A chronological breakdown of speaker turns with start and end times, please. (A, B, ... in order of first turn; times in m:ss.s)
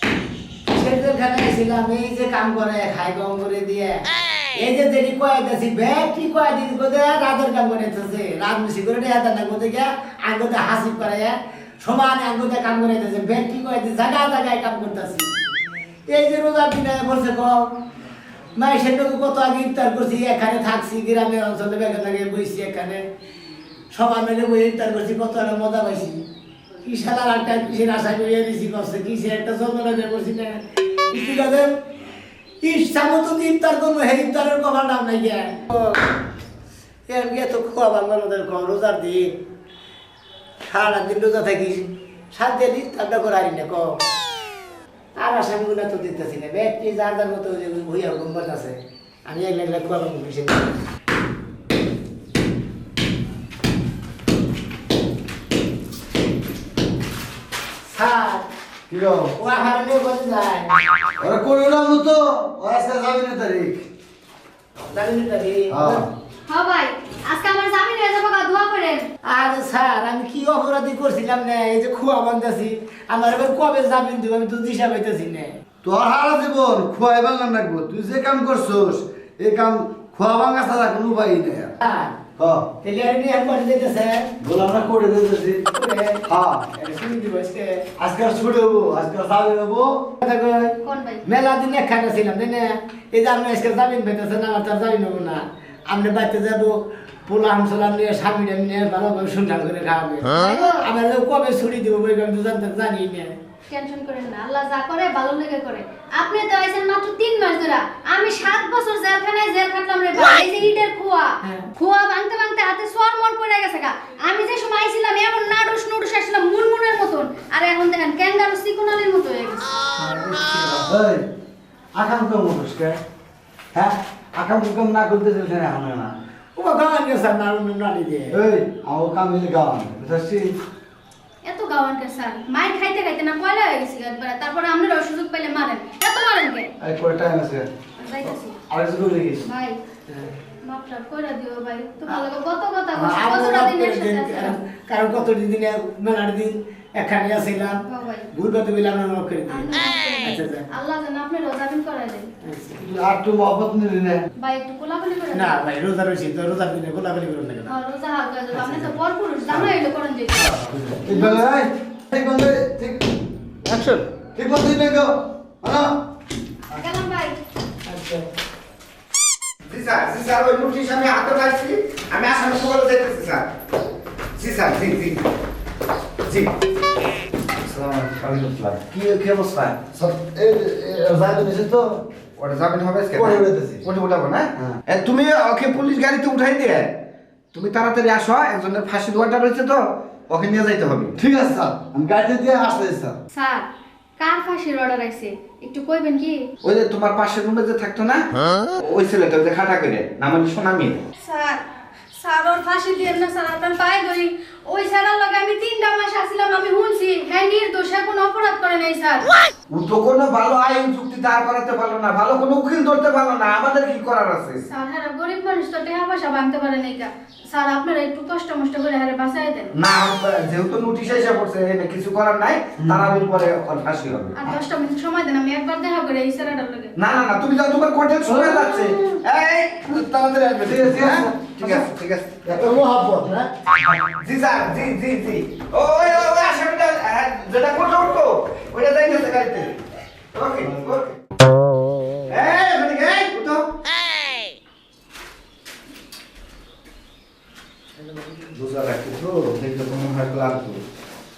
0:00.7-0:15.3 A
0:16.1-0:17.7 A
0:18.6-0:23.0 A
0:23.9-0:26.2 A
0:26.8-0:31.7 A
0:32.6-0:36.0 A
0:37.1-0:39.3 A
0:40.7-0:43.8 A
0:45.2-0:50.7 A
0:57.9-0:58.4 A
0:58.9-0:59.3 B
0:59.4-1:00.7 A
1:01.2-1:03.8 B
1:04.9-1:06.0 A
1:05.7-1:06.1 B
1:06.5-1:09.0 C
1:09.3-1:15.5 A
1:15.8-1:21.7 B
1:21.8-1:22.2 A
1:22.4-1:22.7 B
1:22.8-1:24.3 A
1:24.4-1:25.6 B
1:25.7-1:27.8 A
1:26.3-1:26.6 B
1:28.0-1:30.0 B
1:30.2-1:36.7 A
1:30.8-1:31.2 C
1:37.3-1:43.3 A
1:40.4-1:40.8 C
1:43.7-1:59.7 C
2:00.0-2:00.9 A
2:00.8-2:01.2 B
2:01.9-2:03.0 B
2:03.7-2:06.1 B
2:06.6-2:08.4 A
2:08.3-2:10.6 B
2:11.4-2:16.7 C
2:16.8-2:17.7 B
2:18.0-2:18.6 C
2:18.7-2:19.4 B
2:19.4-2:19.8 C
2:20.6-2:24.6 C
2:22.9-2:27.8 A
2:27.9-2:28.3 C
2:28.3-2:30.6 A
2:29.5-2:32.3 C
2:32.4-2:32.8 A
2:32.8-2:34.2 B
2:34.4-2:35.6 C
2:35.3-2:37.7 A
2:37.6-2:40.4 C
2:40.4-2:43.0 B
2:43.8-2:45.9 B
2:46.8-2:47.4 C
2:47.9-2:48.2 A
2:49.7-2:53.5 D
2:54.4-2:55.2 D
2:56.2-2:56.5 D
2:57.7-3:02.0 B
2:58.3-2:58.8 D
3:02.4-3:07.0 D
3:03.1-3:03.8 B
3:07.5-3:11.2 D
3:11.2-3:13.2 B
3:13.3-3:13.7 C
3:14.2-3:16.4 C
3:16.6-3:21.0 D
3:21.2-3:21.6 C
3:22.2-3:29.3 C
3:29.7-3:34.6 D
3:34.7-3:39.7 C
3:39.8-3:44.6 D
3:44.4-3:46.9 C
3:47.0-3:52.4 D
3:48.2-3:48.9 B
3:50.6-3:51.5 B
3:51.0-3:51.3 A
3:52.4-3:53.5 A
3:54.2-3:59.8 D
4:00.3-4:01.2 D
4:02.3-4:03.7 D
4:08.5-4:10.8 D